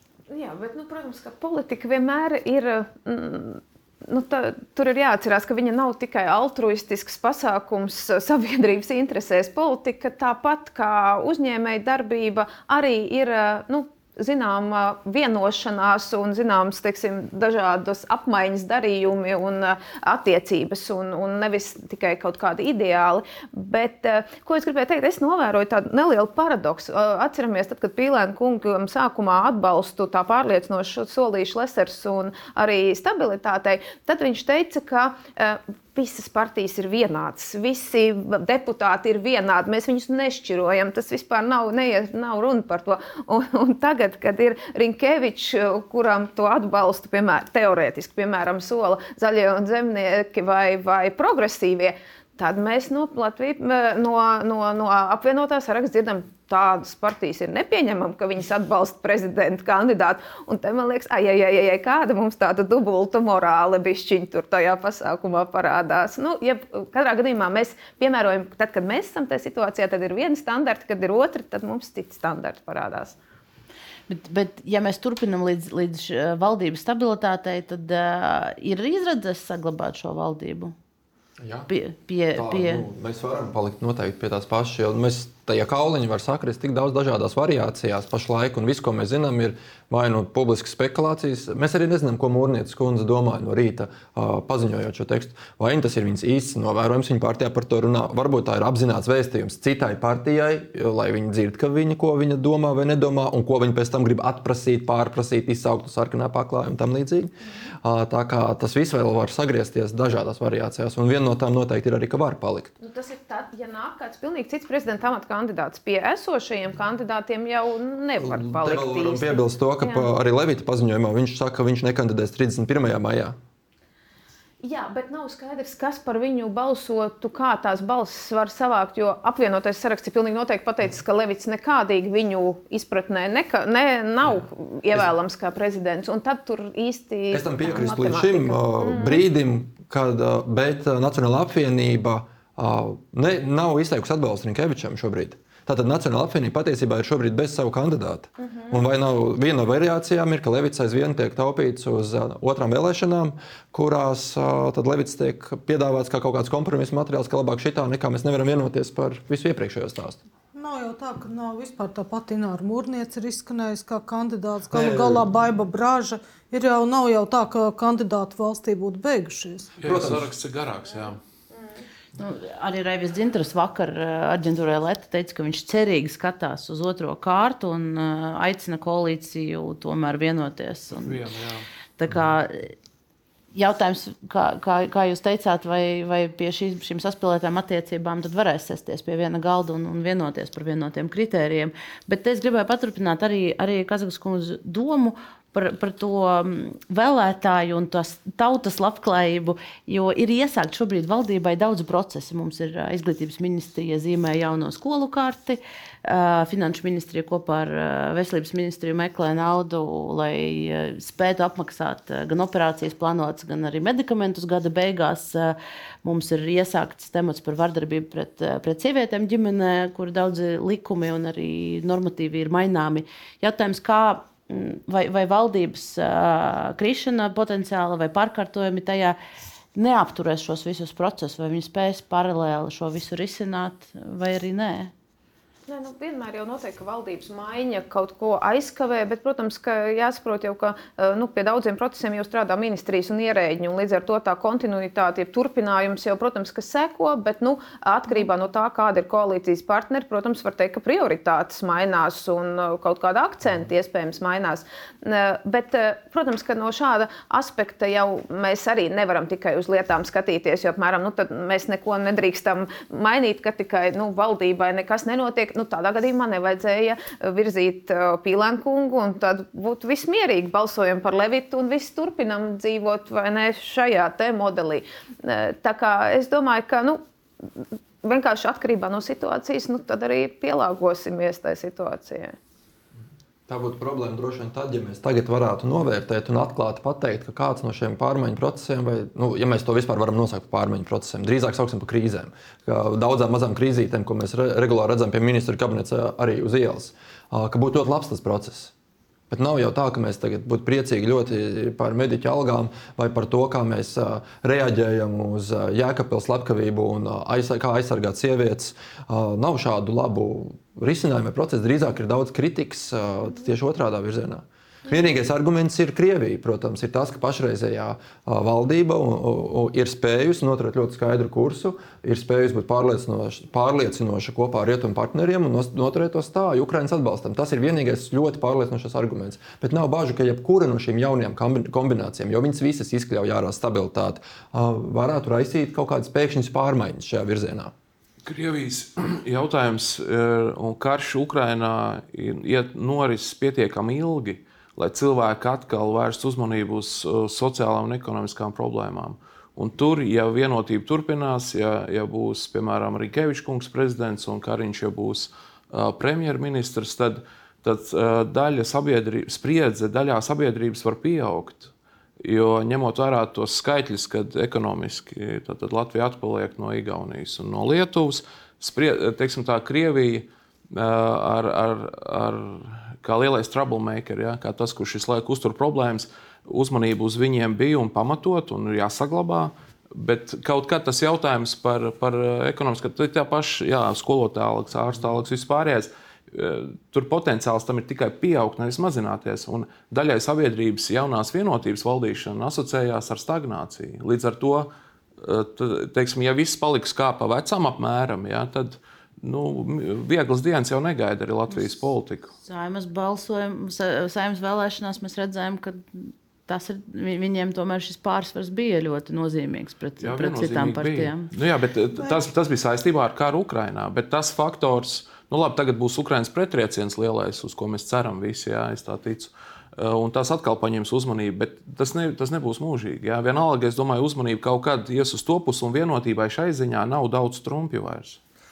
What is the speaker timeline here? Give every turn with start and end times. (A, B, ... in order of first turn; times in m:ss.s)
0:00.3-1:13.2 A
1:14.1-1:20.8 B
1:21.4-1:21.7 C
1:21.7-1:22.8 B
1:22.4-1:52.7 C
1:52.8-2:00.1 A
1:58.2-2:03.4 C
2:04.6-2:19.2 A
2:14.2-2:15.1 C
2:17.3-2:40.2 C
2:28.5-2:28.8 A
2:40.5-2:49.7 D
2:44.7-2:45.4 C
2:49.8-2:51.2 E
2:49.8-2:50.3 C
2:52.2-3:01.2 B
3:01.0-3:01.6 E
3:02.0-3:02.8 B
3:03.5-3:49.2 B
3:49.8-3:54.9 B
3:55.7-4:37.0 A
4:38.0-4:42.4 A
4:43.5-4:58.7 C
4:59.3-5:37.7 C
5:38.2-6:01.7 E
6:02.2-6:42.3 E
6:41.5-6:51.3 B
6:50.0-7:08.2 E